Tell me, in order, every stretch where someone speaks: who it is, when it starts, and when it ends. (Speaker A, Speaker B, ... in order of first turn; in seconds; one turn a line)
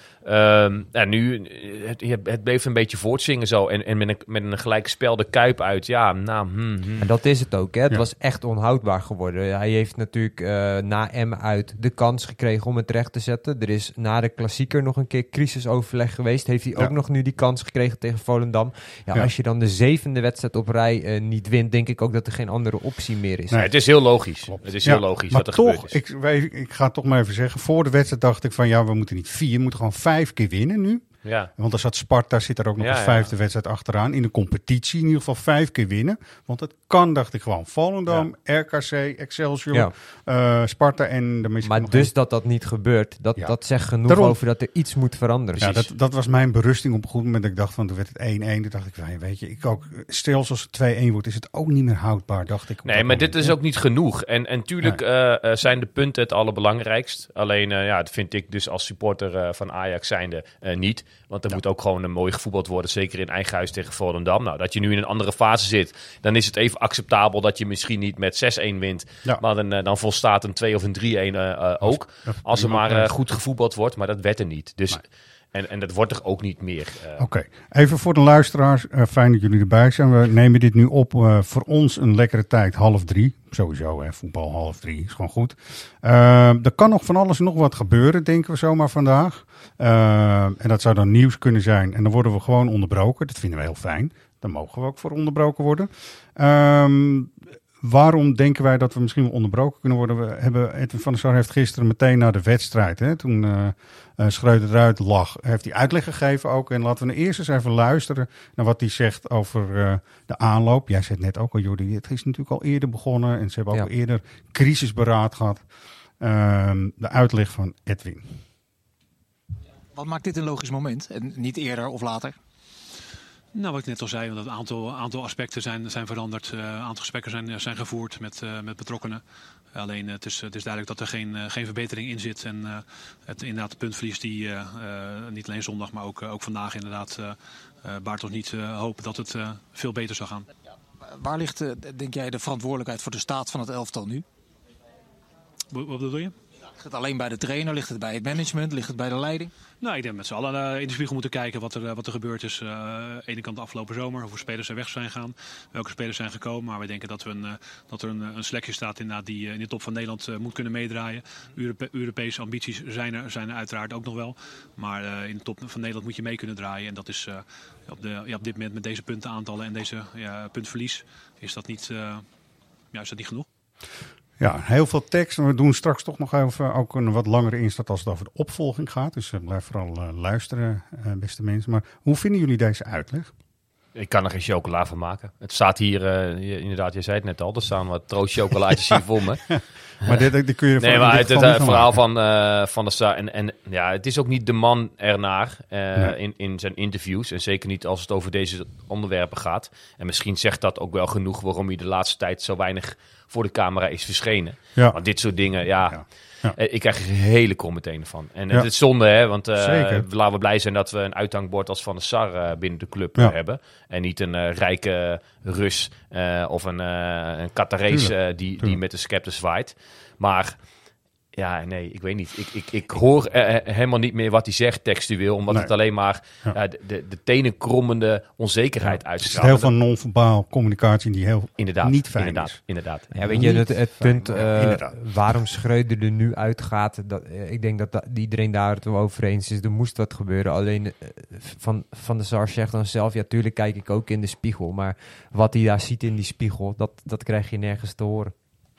Speaker A: 0.2-7.0
Speaker B: 7.0-23.6
Speaker A: 23.5-25.9
Speaker C: 24.5-31.0
Speaker A: 31.2-31.5
Speaker C: 31.6-42.1
Speaker A: 32.8-33.3
Speaker B: 41.6-45.6
Speaker C: 43.4-44.4
Speaker A: 45.6-45.9
Speaker C: 45.6-53.5
Speaker A: 52.8-77.2
Speaker C: 71.8-73.1
Speaker C: 77.2-115.6
Speaker C: 116.2-118.4
Speaker D: 119.9-122.4
Speaker E: 123.5-129.2
Speaker E: 129.7-140.5
Speaker D: 141.0-144.2
Speaker E: 145.7-146.3
Speaker D: 146.8-149.5
Speaker E: 149.8-172.2
Speaker E: 172.9-173.5
Speaker C: 174.4-183.3
Speaker A: 183.9-190.2
Speaker C: 189.6-192.0
Speaker A: 190.8-206.0
Speaker C: 205.9-206.6
Speaker A: 206.5-220.6
Speaker C: 209.5-210.1
Speaker C: 217.9-218.8
Speaker A: 221.3-229.7
Speaker C: 228.8-232.6
Speaker A: 231.6-233.5
Speaker B: 233.1-248.3
Speaker C: 233.2-235.4